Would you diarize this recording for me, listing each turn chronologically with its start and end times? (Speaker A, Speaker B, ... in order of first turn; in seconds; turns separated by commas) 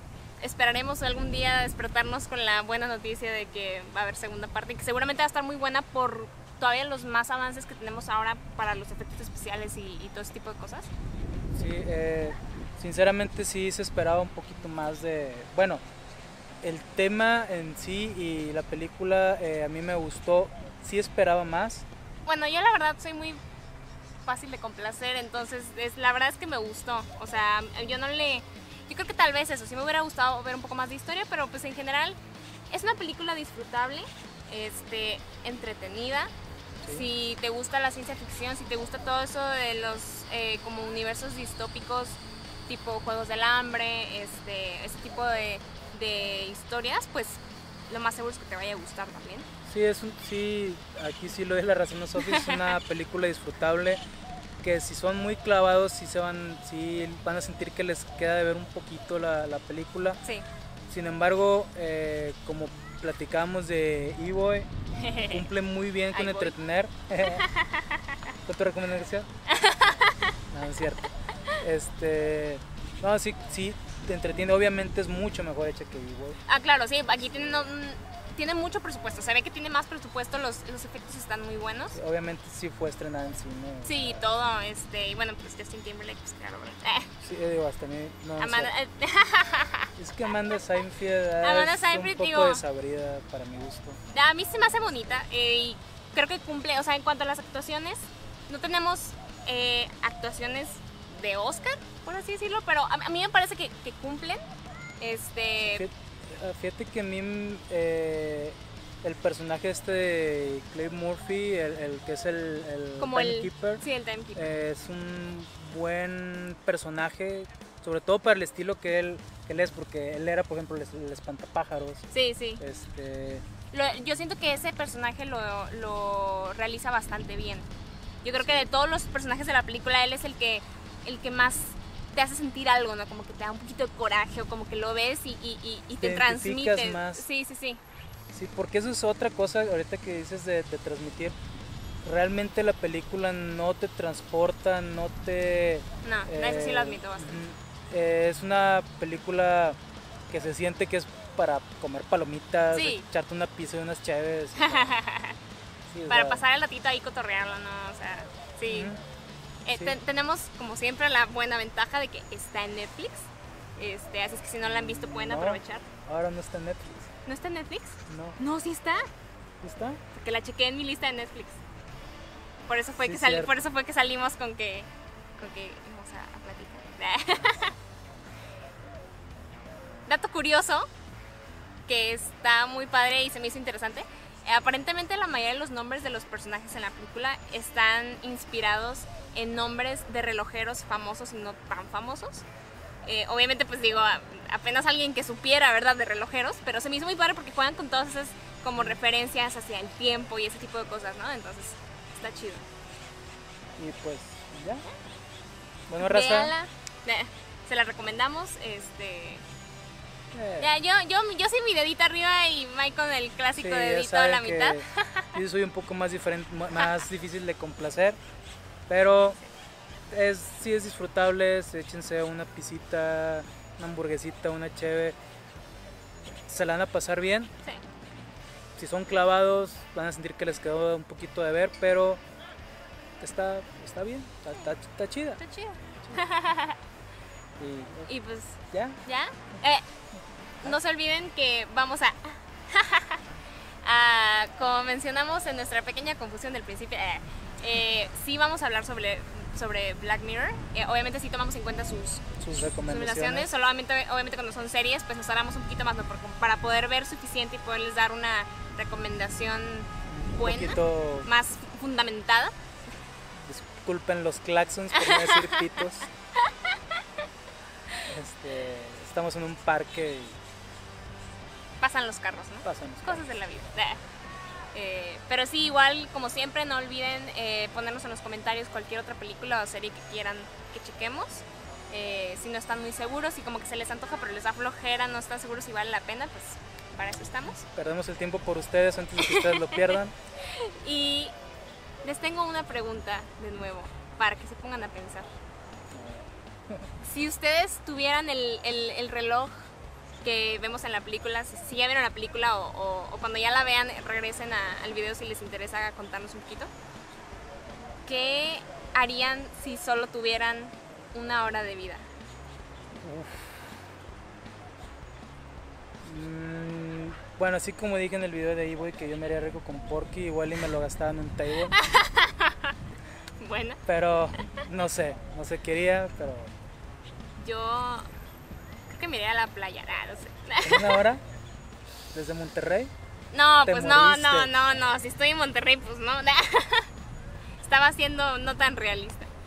Speaker A: 0.4-10.9, Speaker B: 11.5-15.8, Speaker B: 16.6-21.9, Speaker A: 22.2-23.4, Speaker A: 24.2-32.2, Speaker A: 32.7-36.3, Speaker B: 36.8-37.1, Speaker A: 36.9-49.5, Speaker B: 49.6-54.0, Speaker A: 52.2-52.8, Speaker B: 54.6-60.2, Speaker B: 60.9-64.7, Speaker A: 65.0-65.4, Speaker B: 65.2-67.5, Speaker A: 66.1-66.5, Speaker A: 67.2-68.1, Speaker B: 68.5-69.3, Speaker A: 69.5-70.4, Speaker B: 70.5-71.0, Speaker B: 71.6-76.4, Speaker A: 76.5-82.0, Speaker B: 77.1-77.7, Speaker B: 81.9-84.3, Speaker A: 83.8-87.1, Speaker B: 87.2-88.7, Speaker A: 88.4-89.9, Speaker B: 90.0-94.0, Speaker A: 91.4-92.6, Speaker A: 94.1-104.4, Speaker A: 105.0-105.8, Speaker B: 105.6-123.4, Speaker A: 113.0-114.5, Speaker A: 122.1-122.6, Speaker A: 123.7-127.7, Speaker A: 128.2-137.8, Speaker B: 128.4-128.7, Speaker B: 135.9-137.2, Speaker B: 138.3-141.4, Speaker B: 142.0-149.8, Speaker A: 146.0-147.4, Speaker B: 150.3-154.9, Speaker A: 152.7-153.0, Speaker A: 154.6-155.4, Speaker B: 155.9-156.4, Speaker A: 156.1-158.9, Speaker B: 158.7-159.0, Speaker A: 159.6-165.9, Speaker B: 159.7-160.0, Speaker B: 164.6-167.1, Speaker A: 167.2-169.0, Speaker B: 168.1-168.4, Speaker B: 169.6-170.0, Speaker A: 170.1-171.6, Speaker A: 172.7-177.8, Speaker B: 173.0-173.5, Speaker A: 180.1-180.9, Speaker A: 181.9-192.4, Speaker A: 193.0-202.6, Speaker B: 198.7-199.0, Speaker B: 203.8-204.8, Speaker B: 205.9-206.5, Speaker A: 206.0-209.4, Speaker B: 210.3-210.7, Speaker A: 210.6-215.4, Speaker B: 213.5-218.2, Speaker B: 218.9-219.4, Speaker B: 220.1-225.2, Speaker B: 226.5-227.5, Speaker B: 228.8-232.2, Speaker B: 233.2-235.4, Speaker A: 235.4-236.8, Speaker B: 237.6-238.1, Speaker A: 238.1-239.8, Speaker B: 238.7-239.0, Speaker A: 240.6-243.2, Speaker A: 243.8-262.5, Speaker B: 252.4-253.5, Speaker B: 260.1-261.3, Speaker B: 263.3-266.1, Speaker A: 264.9-265.8, Speaker A: 266.4-267.0, Speaker B: 268.0-270.4, Speaker A: 271.8-274.0, Speaker B: 272.6-273.5, Speaker A: 274.7-287.6, Speaker B: 287.6-290.1, Speaker A: 289.2-291.3, Speaker A: 292.0-295.3, Speaker B: 295.9-296.9, Speaker A: 297.0-299.7, Speaker A: 300.2-306.7, Speaker A: 308.1-312.1, Speaker B: 313.0-313.6, Speaker B: 316.0-321.8, Speaker A: 321.7-322.7, Speaker A: 323.4-323.8, Speaker B: 323.9-326.5, Speaker A: 327.4-328.1, Speaker A: 328.9-331.0, Speaker B: 330.6-331.2, Speaker B: 332.1-332.9, Speaker A: 333.3-336.9, Speaker B: 333.6-334.6, Speaker A: 337.6-339.3